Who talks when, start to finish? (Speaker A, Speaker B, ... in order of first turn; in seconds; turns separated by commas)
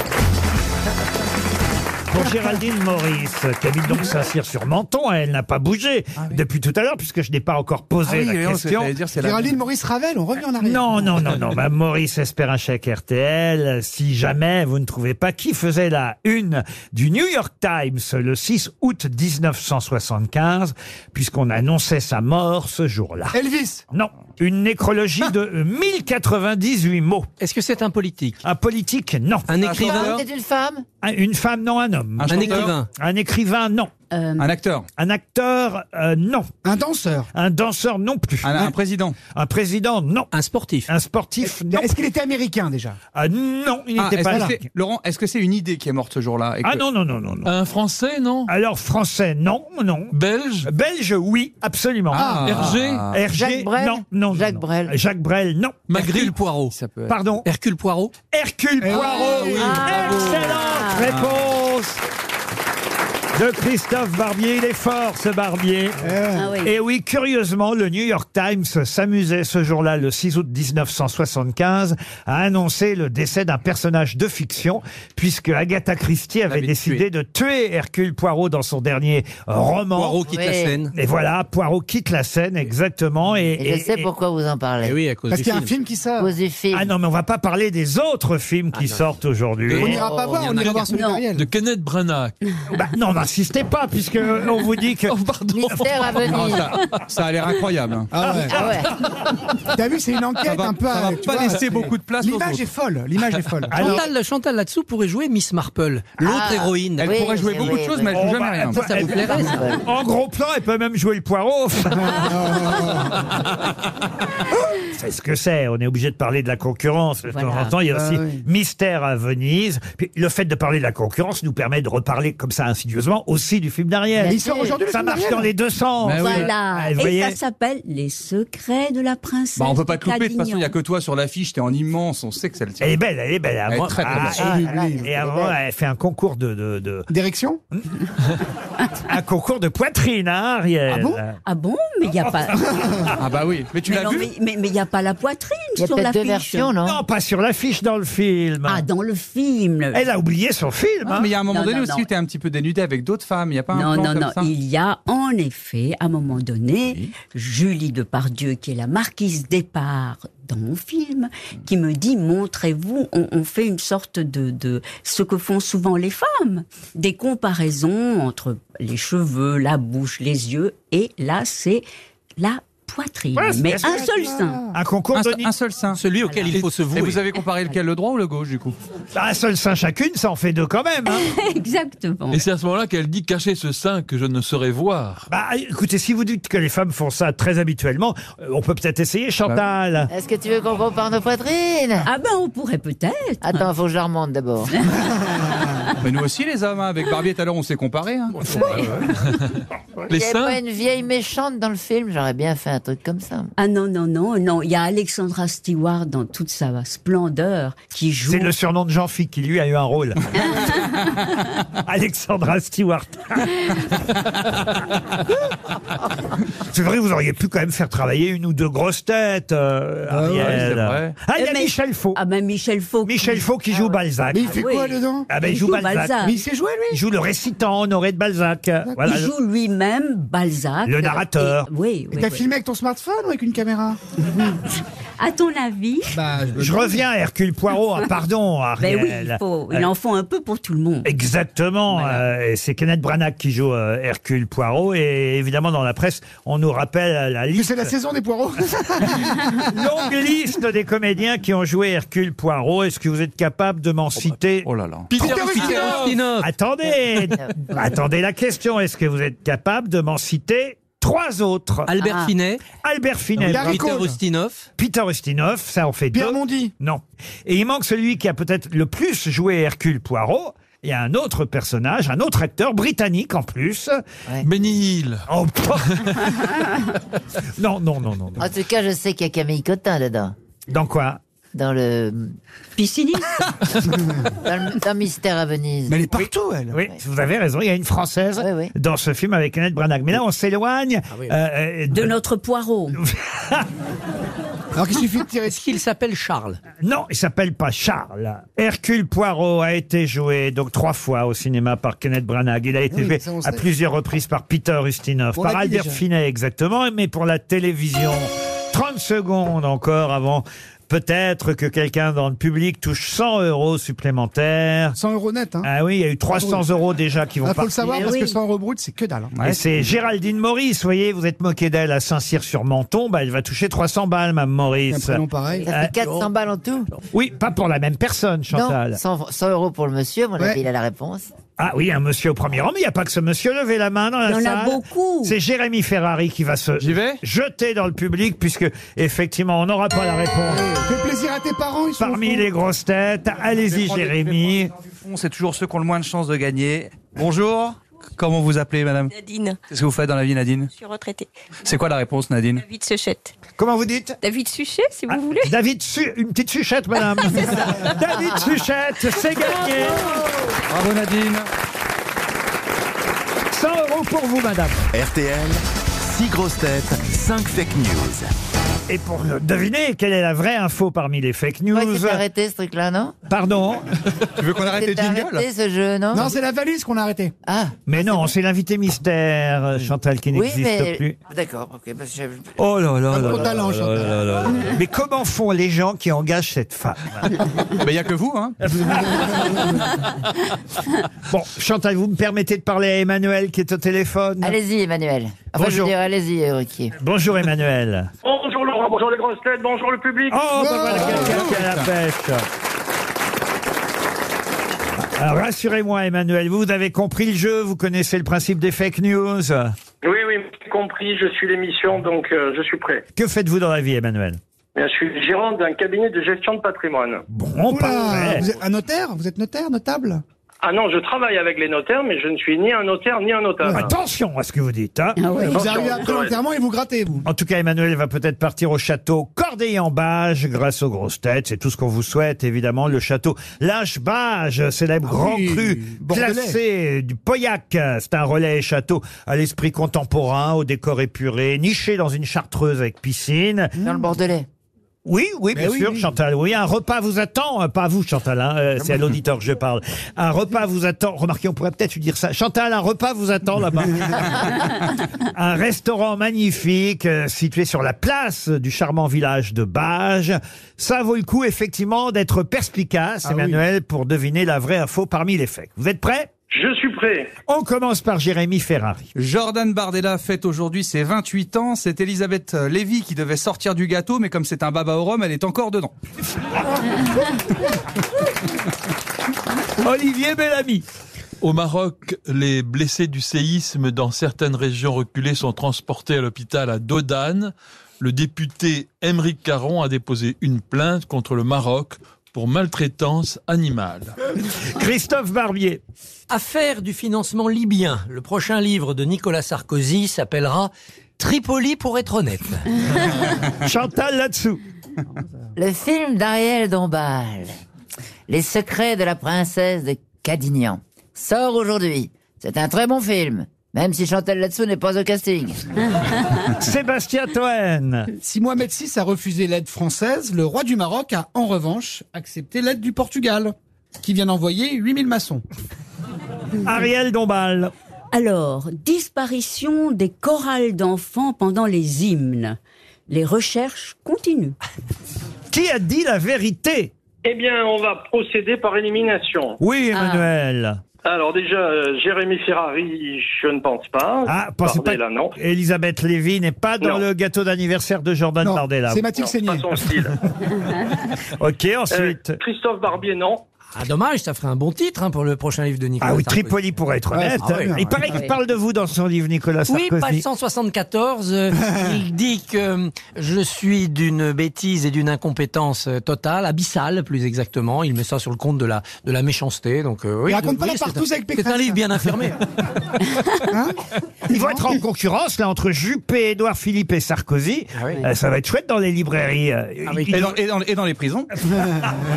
Speaker A: 2.1-8.9, Speaker B: 8.0-9.6, Speaker C: 9.2-11.3, Speaker A: 10.6-23.4, Speaker C: 23.3-23.8, Speaker A: 23.9-27.3, Speaker D: 27.4-28.4, Speaker A: 28.4-29.5, Speaker D: 29.5-30.2, Speaker B: 29.6-30.2, Speaker E: 29.6-30.8, Speaker A: 31.0-33.9, Speaker B: 32.2-32.7, Speaker D: 32.3-32.9, Speaker F: 34.1-34.5, Speaker B: 34.4-34.9, Speaker A: 35.0-36.5, Speaker C: 36.6-37.3, Speaker A: 37.3-38.7, Speaker B: 38.4-39.1, Speaker A: 39.3-40.3, Speaker D: 40.3-40.9, Speaker A: 40.9-41.9, Speaker C: 41.6-43.0, Speaker A: 43.1-44.6, Speaker B: 44.0-46.8, Speaker C: 44.3-44.5, Speaker A: 46.6-47.5, Speaker G: 47.4-48.5, Speaker A: 48.5-52.4, Speaker G: 50.1-50.7, Speaker B: 52.1-53.2, Speaker C: 52.1-52.7, Speaker G: 52.4-53.1, Speaker A: 53.1-55.9, Speaker E: 53.3-54.9, Speaker G: 55.9-56.7, Speaker D: 56.0-56.7, Speaker B: 56.7-57.1, Speaker A: 57.1-57.5, Speaker D: 57.4-58.1, Speaker A: 58.3-62.0, Speaker C: 58.8-59.8, Speaker F: 59.0-61.1, Speaker G: 59.2-60.0, Speaker B: 61.1-61.4, Speaker A: 63.3-80.2, Speaker C: 66.0-66.5, Speaker F: 66.3-66.7, Speaker D: 79.9-80.9, Speaker E: 80.2-80.8, Speaker A: 80.9-84.1, Speaker E: 83.6-85.0, Speaker D: 84.8-85.7, Speaker C: 85.3-86.3, Speaker E: 86.2-86.9, Speaker A: 86.7-90.0, Speaker C: 89.7-91.5, Speaker E: 90.0-90.5, Speaker G: 90.5-92.3, Speaker F: 90.9-91.2, Speaker A: 92.7-95.2, Speaker G: 95.1-96.3, Speaker E: 95.6-96.7, Speaker B: 96.2-98.1, Speaker C: 98.1-98.7, Speaker E: 98.5-98.9, Speaker C: 99.7-103.9, Speaker B: 100.4-102.6, Speaker A: 103.7-104.1, Speaker D: 103.8-107.8, Speaker E: 106.2-109.8, Speaker B: 107.0-108.8, Speaker A: 108.1-112.8, Speaker D: 108.7-109.6, Speaker C: 112.0-113.3, Speaker A: 114.8-127.4, Speaker F: 117.3-117.7, Speaker C: 117.9-118.4, Speaker C: 124.2-125.5, Speaker E: 124.3-124.6, Speaker B: 126.0-126.5, Speaker F: 126.2-130.7, Speaker B: 129.6-132.9, Speaker A: 132.8-137.1, Speaker B: 133.7-134.4, Speaker D: 133.8-134.2, Speaker E: 134.2-135.5, Speaker C: 134.4-135.1, Speaker C: 137.1-137.6, Speaker A: 139.1-141.4, Speaker C: 140.9-141.2, Speaker F: 141.4-142.7, Speaker C: 142.7-143.1, Speaker B: 143.2-144.3, Speaker F: 143.9-146.7, Speaker E: 145.8-147.0, Speaker A: 146.8-148.8, Speaker F: 148.7-150.1, Speaker A: 149.9-151.3, Speaker B: 151.1-154.5, Speaker F: 151.5-152.1, Speaker F: 153.7-171.8, Speaker F: 172.4-174.6, Speaker A: 173.3-175.5, Speaker C: 173.8-174.7, Speaker B: 175.1-176.0, Speaker D: 175.9-177.2, Speaker F: 176.2-176.6, Speaker B: 176.8-178.7, Speaker A: 179.1-181.3, Speaker F: 181.1-182.4, Speaker G: 182.3-185.2, Speaker A: 185.3-190.1, Speaker E: 190.1-192.1, Speaker F: 192.0-193.7, Speaker E: 193.4-194.7, Speaker F: 195.5-195.9, Speaker B: 196.0-198.6, Speaker F: 198.5-198.9, Speaker G: 199.2-199.5, Speaker G: 200.1-200.6, Speaker E: 200.1-203.5, Speaker F: 203.6-208.5, Speaker A: 208.3-210.7, Speaker F: 210.4-211.2, Speaker A: 211.8-213.7, Speaker A: 216.6-222.2, Speaker C: 220.1-220.6, Speaker B: 220.3-221.1, Speaker F: 221.3-223.4, Speaker A: 223.0-224.6, Speaker C: 224.3-225.3, Speaker F: 224.5-226.4, Speaker A: 225.3-226.2, Speaker C: 226.2-227.0, Speaker A: 226.9-229.3, Speaker F: 229.0-232.4, Speaker A: 230.8-231.7, Speaker C: 232.1-234.0, Speaker F: 234.2-236.2, Speaker C: 236.1-236.9, Speaker A: 236.6-239.9, Speaker F: 238.8-241.1, Speaker A: 241.0-247.9, Speaker C: 247.5-249.4, Speaker A: 249.6-254.7, Speaker B: 254.2-255.1, Speaker G: 255.1-256.2, Speaker C: 255.1-256.2, Speaker D: 255.3-256.5, Speaker A: 256.4-261.9, Speaker D: 261.9-262.6, Speaker F: 262.0-262.3, Speaker A: 262.8-263.9, Speaker D: 263.4-264.7, Speaker C: 263.4-264.2, Speaker A: 264.8-274.0, Speaker C: 266.1-266.7, Speaker G: 274.4-275.2, Speaker A: 275.3-276.4, Speaker A: 277.6-278.5, Speaker E: 278.4-280.3, Speaker A: 280.7-281.2, Speaker E: 281.5-282.4, Speaker F: 282.8-283.4, Speaker C: 284.0-284.2, Speaker E: 284.4-286.1, Speaker C: 285.9-286.8, Speaker A: 286.7-292.1, Speaker E: 288.4-288.7, Speaker D: 291.1-291.4, Speaker F: 291.9-293.0, Speaker A: 293.0-293.7, Speaker C: 294.7-295.6, Speaker D: 295.4-296.6, Speaker A: 296.8-315.0, Speaker C: 302.9-303.6, Speaker C: 305.3-306.0, Speaker C: 314.9-315.7, Speaker A: 315.6-317.7, Speaker C: 316.3-316.6, Speaker C: 317.4-319.4, Speaker F: 317.8-318.4, Speaker A: 319.4-325.9, Speaker C: 324.9-325.7, Speaker E: 325.6-326.9, Speaker A: 327.1-329.0, Speaker E: 328.5-331.3, Speaker A: 331.6-340.7, Speaker F: 334.3-335.3, Speaker B: 336.8-337.2, Speaker C: 340.5-342.4, Speaker A: 342.0-344.7, Speaker B: 343.7-349.1, Speaker H: 349.1-349.6, Speaker B: 349.7-350.7, Speaker H: 350.7-351.3, Speaker B: 351.6-352.6, Speaker H: 352.6-353.3, Speaker A: 353.6-354.2, Speaker H: 354.2-355.6, Speaker A: 355.1-360.2, Speaker H: 357.2-358.1, Speaker H: 359.5-360.2, Speaker B: 360.7-361.5, Speaker A: 363.5-364.9, Speaker I: 364.9-368.3, Speaker A: 368.9-372.2, Speaker E: 371.7-373.2, Speaker A: 373.3-373.9, Speaker B: 374.4-375.4, Speaker E: 374.6-376.4, Speaker C: 376.1-377.3, Speaker E: 377.4-378.3, Speaker A: 377.9-381.2, Speaker E: 380.3-382.6, Speaker A: 382.6-387.4, Speaker C: 383.1-384.2, Speaker E: 383.1-383.6, Speaker B: 387.8-388.6, Speaker A: 388.7-389.6, Speaker A: 391.3-394.6, Speaker E: 394.4-396.9, Speaker A: 395.5-395.9, Speaker A: 396.9-398.1, Speaker J: 398.2-400.4, Speaker A: 400.3-402.4, Speaker C: 400.5-401.6, Speaker B: 401.2-401.9, Speaker A: 405.0-409.7, Speaker J: 410.0-413.0, Speaker A: 413.1-414.4, Speaker J: 414.8-417.2, Speaker A: 417.3-418.5, Speaker C: 417.7-420.2, Speaker J: 420.6-423.8, Speaker C: 423.6-423.9, Speaker A: 423.7-425.2, Speaker F: 425.2-426.0, Speaker C: 425.4-427.2, Speaker J: 425.5-426.4, Speaker A: 427.2-443.7, Speaker C: 435.1-436.6, Speaker E: 443.8-444.5, Speaker A: 445.0-454.8, Speaker C: 445.5-446.1, Speaker A: 455.3-466.3, Speaker C: 463.2-463.6, Speaker J: 466.5-467.3, Speaker A: 467.5-469.1, Speaker B: 469.1-475.9, Speaker A: 479.8-480.8, Speaker G: 481.4-494.1, Speaker A: 494.6-495.8, Speaker D: 496.3-502.7, Speaker A: 503.6-504.6, Speaker E: 505.6-507.5, Speaker E: 508.3-515.6, Speaker A: 516.5-518.1, Speaker C: 518.2-525.4, Speaker A: 526.6-527.7, Speaker F: 528.1-532.6, Speaker F: 533.1-534.5, Speaker A: 535.5-536.9, Speaker J: 537.2-539.6, Speaker A: 539.6-540.8, Speaker F: 539.9-540.2, Speaker J: 541.0-545.3, Speaker A: 544.2-549.1, Speaker C: 548.4-549.8, Speaker J: 549.2-550.1, Speaker A: 551.3-552.4, Speaker J: 551.9-553.4, Speaker D: 553.7-556.5, Speaker A: 556.0-560.2, Speaker C: 557.1-557.9, Speaker D: 557.4-557.7, Speaker D: 559.7-572.4, Speaker C: 570.3-571.8, Speaker C: 573.5-573.8, Speaker A: 574.3-580.4, Speaker C: 574.3-574.6, Speaker D: 577.8-578.0, Speaker B: 580.0-581.3